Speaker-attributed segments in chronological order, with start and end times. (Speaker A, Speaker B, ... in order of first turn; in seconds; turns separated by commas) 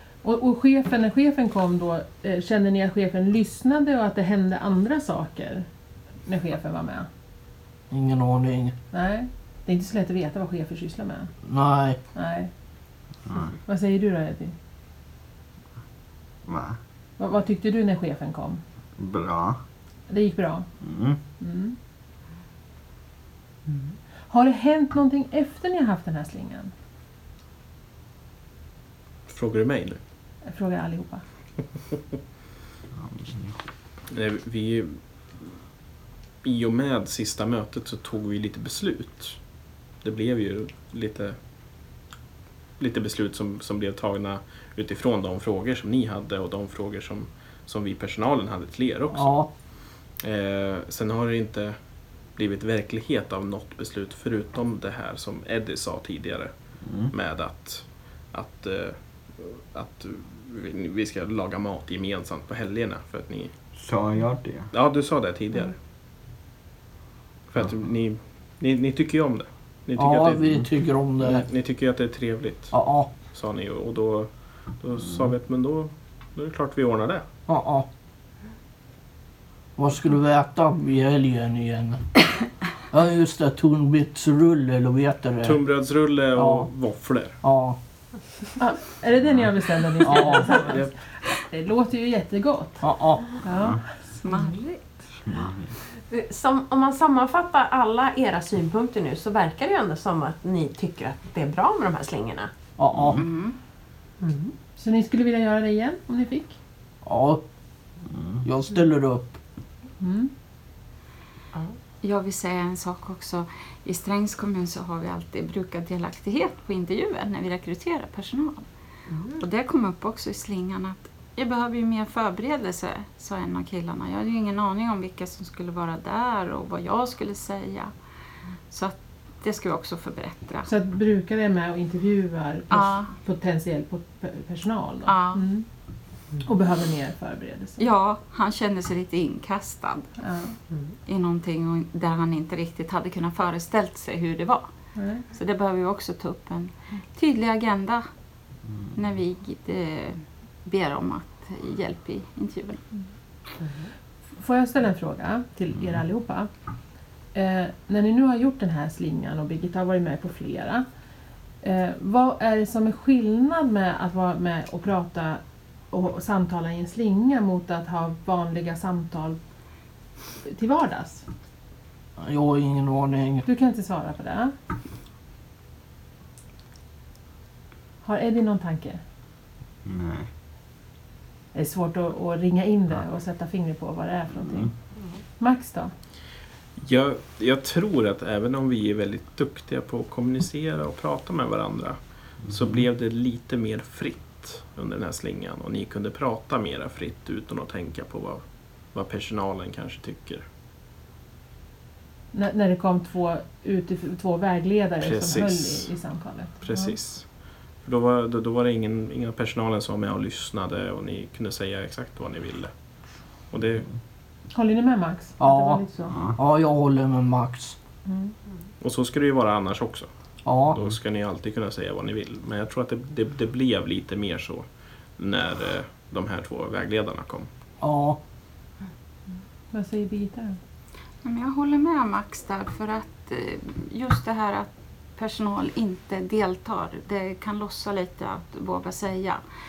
Speaker A: 0.2-5.7, Speaker A: 6.3-7.1, Speaker B: 7.9-8.8, Speaker A: 8.9-11.3, Speaker B: 11.5-12.0, Speaker A: 12.2-12.5, Speaker C: 13.3-13.6, Speaker A: 13.7-14.5, Speaker C: 16.5-16.8, Speaker A: 17.2-18.6, Speaker C: 19.0-19.6, Speaker A: 20.1-20.7, Speaker C: 20.8-21.2, Speaker A: 21.4-21.8, Speaker A: 24.3-26.7, Speaker D: 29.3-30.0, Speaker A: 30.4-31.2, Speaker C: 33.0-33.5, Speaker D: 34.1-35.5, Speaker D: 36.4-41.4, Speaker D: 42.8-63.6, Speaker B: 49.1-49.5, Speaker C: 56.9-57.1, Speaker C: 63.8-64.7, Speaker D: 64.7-65.8, Speaker D: 67.5-77.3, Speaker B: 70.0-71.5, Speaker B: 72.7-73.1, Speaker B: 77.5-77.9, Speaker B: 79.8-82.1, Speaker B: 82.9-85.6, Speaker D: 85.4-87.4, Speaker B: 86.4-86.7, Speaker B: 87.4-87.8, Speaker A: 88.6-92.9, Speaker B: 90.0-90.5, Speaker D: 90.6-90.9, Speaker B: 92.8-93.3, Speaker A: 93.4-94.0, Speaker E: 94.2-95.0, Speaker C: 95.3-95.7, Speaker F: 96.1-102.5, Speaker B: 102.8-103.2, Speaker E: 103.1-103.6, Speaker F: 104.2-104.5, Speaker A: 104.8-106.6, Speaker B: 107.0-107.4, Speaker C: 108.1-108.5, Speaker B: 108.4-109.4, Speaker A: 110.0-110.3, Speaker E: 112.0-118.6, Speaker F: 119.1-119.4, Speaker E: 119.3-127.9, Speaker E: 128.7-130.7, Speaker A: 130.7-135.7, Speaker E: 132.7-133.1, Speaker E: 135.1-135.4, Speaker A: 136.4-137.8, Speaker E: 137.8-140.1, Speaker A: 140.2-140.6, Speaker E: 141.1-144.7, Speaker A: 144.9-145.2, Speaker E: 145.3-148.1, Speaker E: 148.9-152.8, Speaker F: 153.6-153.9, Speaker A: 154.4-156.5, Speaker A: 157.3-160.9, Speaker A: 161.6-169.4, Speaker A: 170.4-171.3, Speaker B: 172.2-173.4, Speaker A: 173.5-174.5, Speaker A: 178.0-179.0, Speaker C: 179.8-180.3, Speaker A: 181.5-184.7, Speaker A: 185.4-185.9, Speaker D: 186.8-200.4, Speaker A: 202.3-207.0, Speaker D: 205.0-205.9, Speaker D: 206.6-213.9, Speaker A: 214.5-216.2, Speaker B: 215.4-217.8, Speaker A: 218.1-218.3, Speaker D: 218.8-220.1, Speaker B: 220.4-220.8, Speaker D: 220.7-227.5, Speaker B: 227.8-228.2, Speaker A: 229.7-230.6, Speaker E: 231.2-239.4